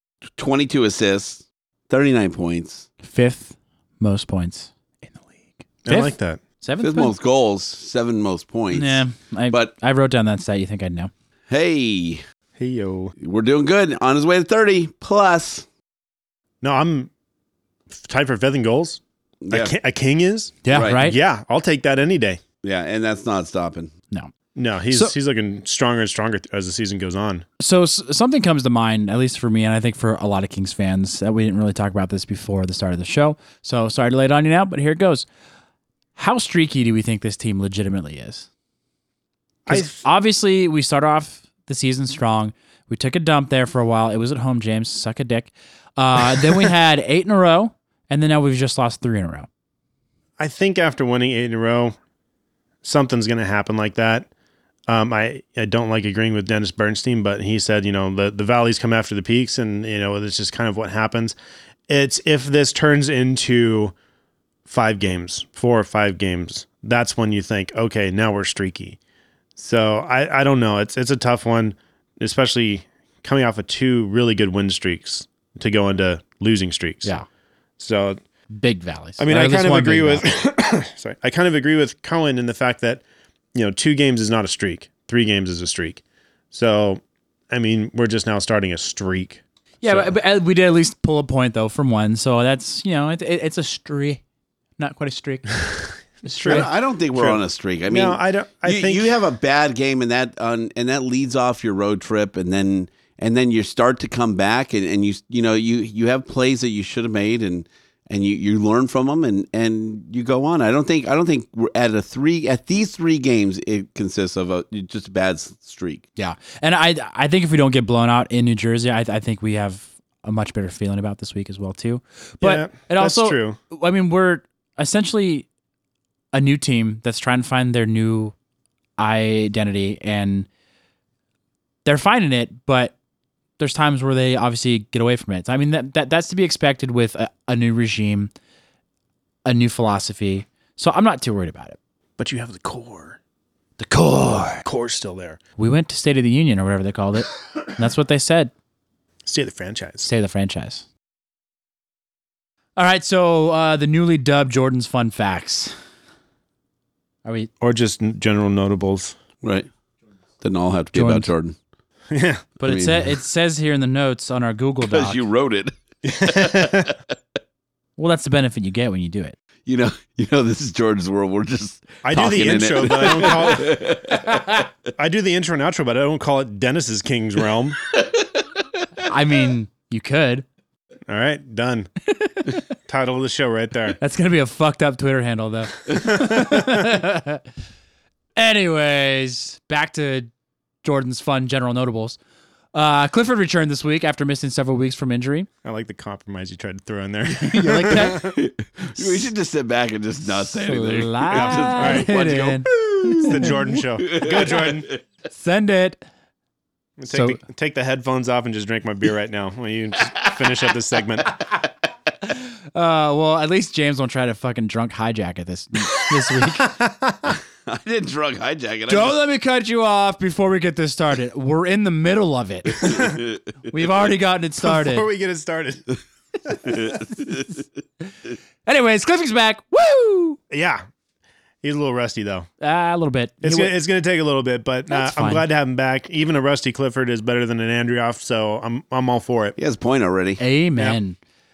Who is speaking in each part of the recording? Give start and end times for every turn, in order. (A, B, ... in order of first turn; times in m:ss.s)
0:00.4-0:02.9 A
0:03.0-0:07.1 B
0:05.8-0:06.4 C
0:06.8-0:09.7 A
0:08.7-0:11.1 B
0:11.5-0:12.2 A
0:12.6-0:13.1 C
0:13.2-0:15.7 A
0:16.6-0:17.1 C
0:17.9-0:19.0 C
0:19.4-0:19.7 A
0:19.5-0:22.4 C
0:20.6-0:21.2 B
0:20.7-0:21.0 A
0:22.6-0:23.9 A
0:24.6-0:27.4 C
0:27.6-0:35.3 B
0:36.2-0:38.5 B
0:39.7-0:40.0 C
0:39.7-0:49.5 B
0:50.4-0:52.0 C
0:52.8-0:54.3 C
0:54.9-1:01.4 C
1:01.9-1:03.9 C
1:04.7-1:09.0 C
1:09.6-1:17.1 C
1:17.8-1:18.2 C
1:18.5-1:20.3 B
1:19.2-1:23.0 C
1:23.5-1:26.0 C
1:26.5-1:30.1 C
1:29.8-1:34.2 B
1:34.8-1:35.6 B
1:36.2-1:36.7 B
1:36.3-1:39.2 C
1:36.5-1:56.0 A
1:56.2-2:05.5 B
2:02.4-2:03.6 C
2:06.3-2:08.3 B
2:09.0-2:10.5 B
2:11.8-2:12.9 B
2:13.6-2:18.3 B
2:19.4-2:21.8 B
2:22.2-2:23.2 C
2:23.8-2:24.7 B
2:24.6-2:25.4 C
2:25.6-2:28.5 B
2:29.3-2:30.1 C
2:30.0-2:30.8 B
2:32.8-2:35.7 B
2:37.2-2:37.5 B
2:37.6-2:39.2 C
2:39.4-2:39.7 A
2:40.4-2:41.6 A
2:40.9-2:41.3 B
2:42.1-2:42.4 C
2:42.6-2:45.2 B
2:42.6-2:43.1 A
2:44.9-2:45.7 A
2:46.0-2:46.9 C
2:46.3-2:46.9 A
2:48.0-2:49.4 B
2:49.7-2:54.5 A
2:52.0-2:54.0 C
2:54.3-2:54.6 B
2:55.0-2:57.8 C
2:59.0-3:00.4 B
3:01.1-3:01.9 C
3:02.2-3:02.5 B
3:02.9-3:04.0 C
3:04.0-3:07.4 B
3:06.0-3:06.6 C
3:08.4-3:10.3 B
3:10.8-3:12.2 B
3:12.7-3:15.5 B
3:15.6-3:18.4 C
3:17.5-3:18.3 B
3:17.9-3:25.0 A
3:19.0-3:19.2 B
3:20.6-3:23.5 B
3:21.3-3:22.1 C
3:23.2-3:24.9 C
3:25.3-3:26.0 B
3:27.0-3:31.4 C
3:27.1-3:27.4 B
3:32.3-3:36.7 B
3:36.6-3:37.4 C
3:37.6-3:39.2 A
3:38.9-3:42.9 B
3:43.1-3:43.4 A
3:43.7-3:45.1 B
3:44.6-3:46.0 C
3:46.5-3:47.0 C
3:46.8-3:47.4 A
3:48.7-3:50.4 B
3:50.5-3:50.8 C
3:51.6-3:52.5 C
3:52.6-3:53.8 B
3:53.4-3:59.6 C
3:54.9-3:55.4 B
3:59.6-4:00.4 A
4:00.4-4:01.2 B